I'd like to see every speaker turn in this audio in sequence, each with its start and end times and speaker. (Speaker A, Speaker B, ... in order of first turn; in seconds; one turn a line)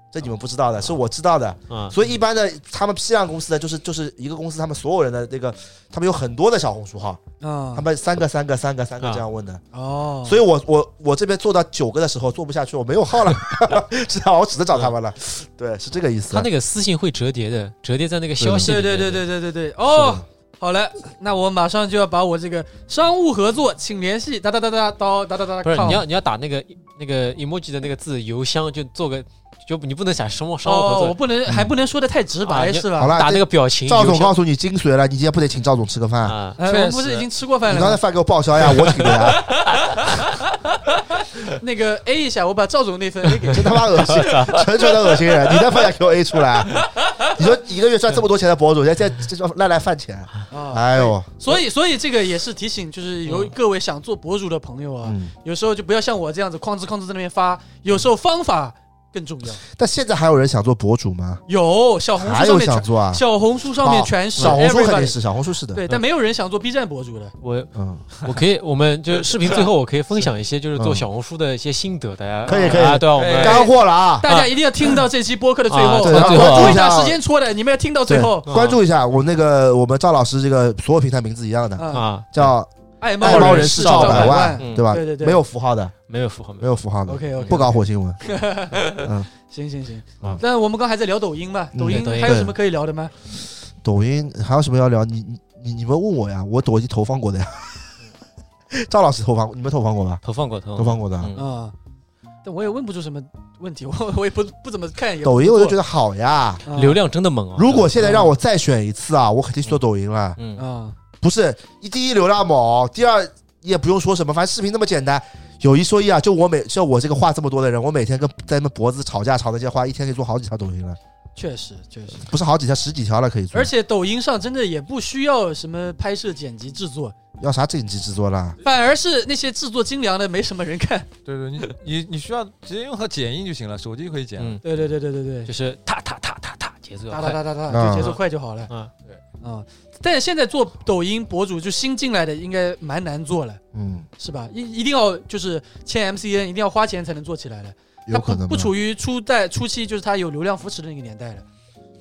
Speaker A: 0.1-7.2
Speaker B: 1.7-2.0
Speaker C: 7.4-7.9
Speaker A: 7.7-9.6
Speaker C: 9.7-10.4
Speaker A: 10.2-16.5
Speaker B: 16.3-19.3
Speaker A: 18.4-18.7
Speaker C: 18.6-26.0
Speaker A: 19.9-20.2
Speaker B: 25.6-31.2
Speaker C: 30.6-33.2
Speaker A: 31.4-31.7
Speaker B: 32.4-34.4
Speaker A: 33.0-36.4
Speaker B: 36.2-36.6
Speaker C: 36.6-38.0
Speaker D: 36.6-37.3
Speaker A: 37.7-39.5
Speaker C: 41.4-44.5
Speaker B: 43.4-44.6
Speaker A: 43.5-51.6
Speaker C: 50.5-59.6
Speaker B: 53.3-53.5
Speaker A: 55.0-55.3
Speaker A: 59.7-61.4
Speaker C: 61.5-65.2
Speaker A: 62.2-63.2
Speaker A: 63.8-65.8
Speaker C: 65.7-67.4
Speaker B: 67.4-73.7
Speaker A: 67.7-68.0
Speaker A: 70.8-71.0
Speaker A: 72.5-74.3
Speaker C: 72.5-72.9
Speaker D: 73.2-73.7
Speaker C: 73.5-78.6
Speaker B: 74.2-74.5
Speaker B: 75.7-76.8
Speaker A: 76.0-77.2
Speaker A: 78.1-85.9
Speaker B: 78.5-78.8
Speaker C: 81.8-82.1
Speaker B: 81.9-82.5
Speaker C: 83.0-85.4
Speaker B: 83.2-84.9
Speaker B: 86.1-86.7
Speaker A: 86.6-88.2
Speaker C: 87.1-93.1
Speaker B: 87.4-87.6
Speaker A: 89.0-89.3
Speaker A: 91.7-92.6
Speaker B: 91.8-92.5
Speaker A: 93.8-97.9
Speaker A: 98.7-100.2
Speaker B: 100.2-101.5
Speaker A: 100.8-101.3
Speaker C: 101.4-101.7
Speaker C: 102.4-105.8
Speaker A: 105.2-106.6
Speaker C: 106.7-107.0
Speaker B: 106.7-108.2
Speaker A: 107.6-110.4
Speaker C: 108.0-108.3
Speaker B: 110.4-110.7
Speaker C: 110.6-111.0
Speaker A: 111.2-121.0
Speaker C: 121.4-122.3
Speaker A: 122.2-123.7
Speaker C: 123.5-127.1
Speaker A: 127.4-128.6
Speaker C: 128.6-131.1
Speaker D: 131.2-134.6
Speaker B: 134.4-134.6
Speaker C: 134.6-135.5
Speaker B: 135.4-138.9
Speaker C: 137.1-138.7
Speaker A: 137.7-138.2
Speaker C: 139.4-143.6
Speaker A: 143.7-144.1
Speaker C: 144.2-151.4
Speaker A: 148.1-148.7